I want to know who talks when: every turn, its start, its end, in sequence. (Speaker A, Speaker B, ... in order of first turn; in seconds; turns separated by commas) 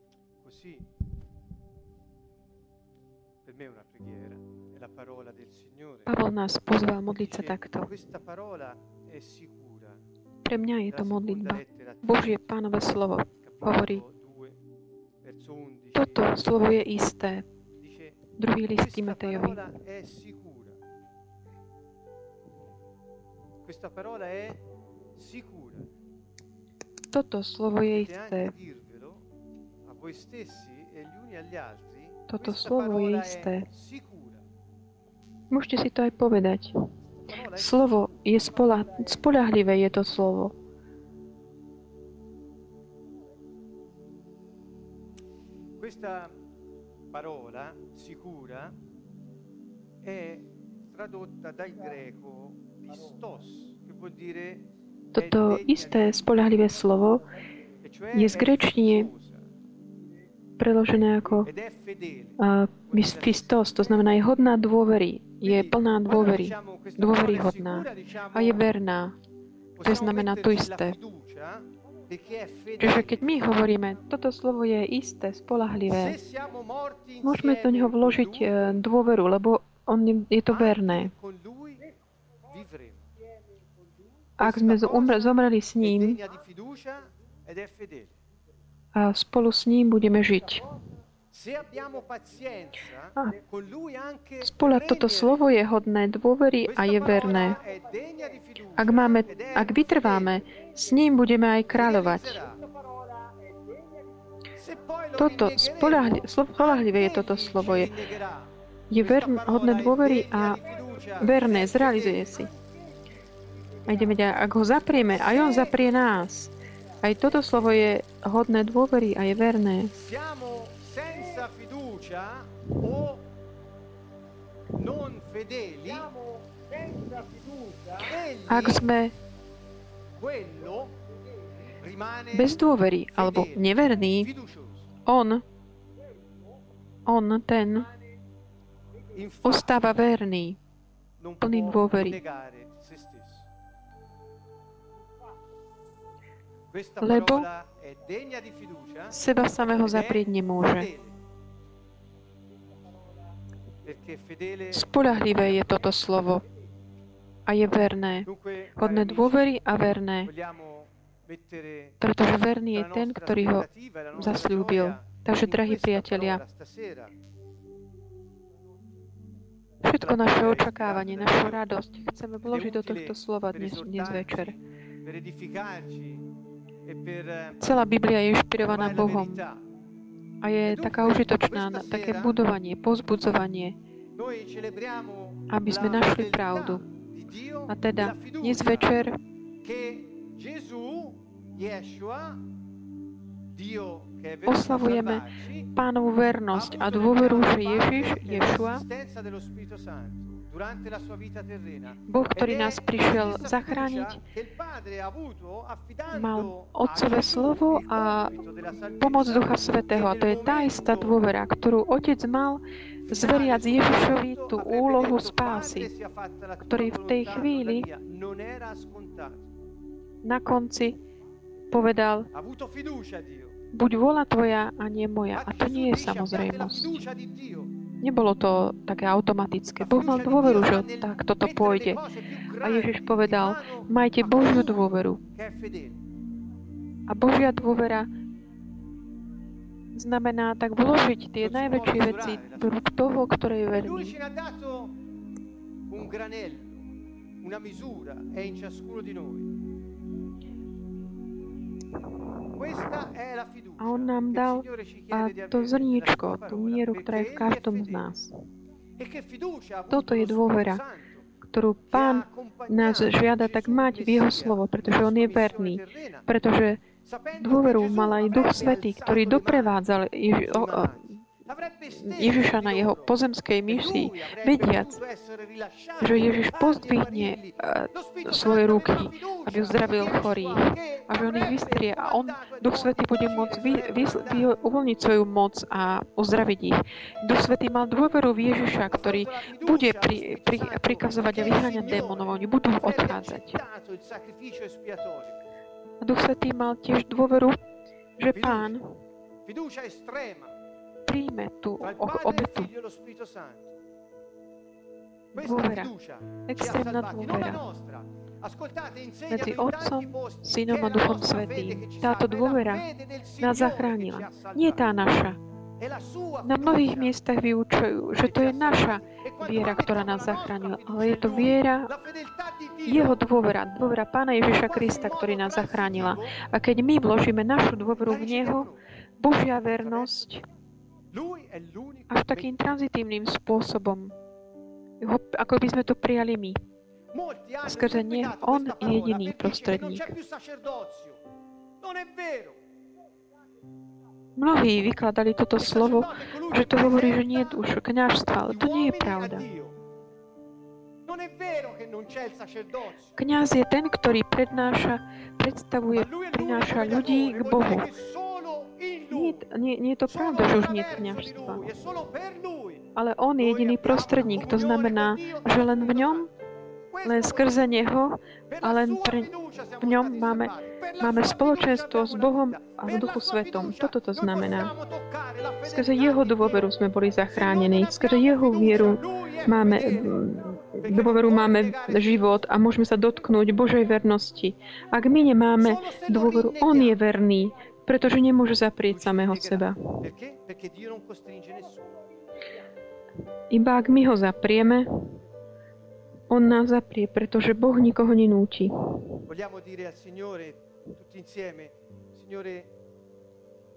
Speaker A: 0.4-0.9, Speaker A: 3.4-6.1, Speaker B: 6.0-7.9, Speaker A: 7.1-10.0, Speaker B: 10.4-14.0, Speaker A: 10.9-12.6, Speaker A: 13.4-14.6, Speaker A: 15.2-16.6, Speaker B: 15.9-17.4, Speaker A: 17.8-18.2, Speaker B: 18.4-19.6, Speaker A: 18.7-20.8, Speaker A: 23.6-24.6, Speaker A: 25.1-25.9, Speaker B: 27.1-28.5, Speaker A: 27.9-29.2, Speaker A: 29.8-34.4, Speaker B: 32.3-33.7, Speaker B: 35.5-36.8, Speaker A: 37.3-38.8, Speaker B: 37.5-40.5, Speaker A: 45.8-46.3, Speaker A: 47.1-48.8, Speaker A: 50.0-54.6, Speaker B: 55.1-57.2, Speaker A: 55.2-56.4, Speaker A: 57.8-59.5, Speaker B: 58.1-59.1, Speaker B: 60.6-61.5, Speaker A: 61.4-64.2, Speaker B: 62.4-69.2, Speaker A: 65.4-68.6, Speaker A: 69.8-73.6, Speaker B: 69.8-71.0, Speaker B: 72.8-76.2, Speaker A: 75.9-78.8, Speaker B: 77.2-81.1, Speaker A: 80.5-81.9, Speaker A: 82.5-83.1, Speaker B: 84.4-86.2, Speaker A: 84.4-88.2, Speaker B: 88.9-90.7, Speaker A: 91.3-95.4, Speaker B: 94.4-97.6, Speaker A: 96.7-100.3, Speaker B: 98.8-102.5, Speaker A: 101.7-102.6, Speaker A: 104.5-112.6, Speaker B: 105.2-107.9, Speaker B: 108.9-110.6, Speaker B: 111.2-112.5, Speaker B: 113.8-119.9, Speaker A: 115.0-116.0, Speaker A: 119.9-123.2, Speaker A: 124.7-126.4, Speaker A: 126.9-128.9, Speaker B: 128.4-129.1, Speaker A: 130.1-131.1, Speaker A: 131.6-134.9, Speaker B: 132.3-134.3, Speaker B: 135.0-135.4, Speaker B: 137.1-137.9, Speaker A: 139.1-139.9, Speaker B: 139.4-140.6, Speaker A: 141.2-143.5, Speaker B: 141.4-142.2, Speaker A: 146.7-149.2, Speaker B: 147.0-147.5, Speaker B: 149.1-150.9, Speaker A: 149.8-151.2, Speaker A: 153.8-155.7, Speaker B: 154.7-156.4, Speaker B: 157.4-160.3, Speaker A: 158.2-159.5, Speaker A: 160.2-162.0, Speaker B: 162.0-166.4, Speaker A: 162.7-167.1, Speaker B: 169.8-174.5, Speaker A: 170.0-171.6, Speaker A: 172.4-176.3, Speaker A: 176.8-177.7, Speaker B: 177.6-179.4, Speaker A: 178.6-179.6, Speaker B: 180.4-183.8, Speaker A: 180.7-182.4, Speaker A: 184.2-189.0, Speaker B: 185.5-186.8, Speaker B: 187.7-189.2, Speaker A: 189.6-192.4, Speaker A: 193.5-195.7, Speaker B: 194.4-198.8, Speaker A: 196.5-211.2, Speaker B: 202.1-204.2, Speaker B: 206.1-208.4, Speaker B: 209.0-215.9, Speaker A: 213.1-219.5, Speaker B: 216.6-217.9, Speaker B: 220.2-221.0, Speaker B: 221.7-222.3, Speaker A: 222.3-223.6, Speaker B: 223.7-227.0, Speaker A: 225.3-227.7, Speaker B: 228.0-232.0, Speaker A: 229.8-236.0, Speaker B: 232.6-235.2, Speaker B: 237.1-238.1, Speaker B: 239.9-244.1, Speaker A: 241.4-242.8, Speaker A: 243.7-245.0, Speaker A: 245.9-246.9, Speaker A: 247.4-249.5, Speaker A: 252.5-258.1, Speaker B: 253.8-258.3, Speaker A: 259.0-261.3, Speaker B: 259.9-260.8, Speaker B: 261.4-266.8, Speaker A: 261.9-266.3, Speaker A: 267.0-269.8, Speaker B: 267.4-271.3, Speaker A: 270.4-284.6, Speaker B: 271.9-275.0, Speaker B: 276.0-293.6, Speaker A: 288.9-295.4, Speaker B: 296.0-297.6, Speaker B: 298.2-299.0, Speaker A: 298.3-298.7, Speaker A: 299.4-300.6, Speaker B: 301.1-302.7, Speaker A: 301.8-303.8, Speaker B: 305.3-305.9, Speaker A: 305.3-314.9, Speaker B: 306.4-307.6, Speaker B: 309.3-312.9, Speaker B: 313.4-315.4, Speaker A: 315.8-317.1, Speaker B: 316.4-321.9, Speaker A: 318.2-323.3, Speaker B: 322.8-330.4, Speaker A: 324.5-326.4, Speaker A: 328.0-328.8, Speaker A: 329.8-330.2, Speaker A: 331.1-332.6, Speaker B: 332.1-334.1, Speaker B: 335.0-336.6, Speaker A: 337.1-341.2, Speaker B: 337.6-340.1, Speaker A: 341.8-342.6, Speaker B: 344.4-349.4, Speaker A: 345.6-347.6, Speaker A: 348.4-349.8, Speaker A: 351.0-353.1, Speaker B: 353.1-357.9, Speaker A: 355.9-359.4, Speaker B: 359.1-361.7, Speaker A: 360.1-366.3, Speaker B: 362.9-366.3, Speaker A: 366.9-367.8, Speaker B: 367.0-374.7, Speaker A: 368.5-376.7, Speaker B: 375.6-390.0, Speaker A: 377.3-382.4, Speaker A: 385.6-387.0, Speaker A: 388.9-391.9, Speaker B: 393.5-394.9, Speaker B: 396.3-399.1, Speaker A: 399.2-402.7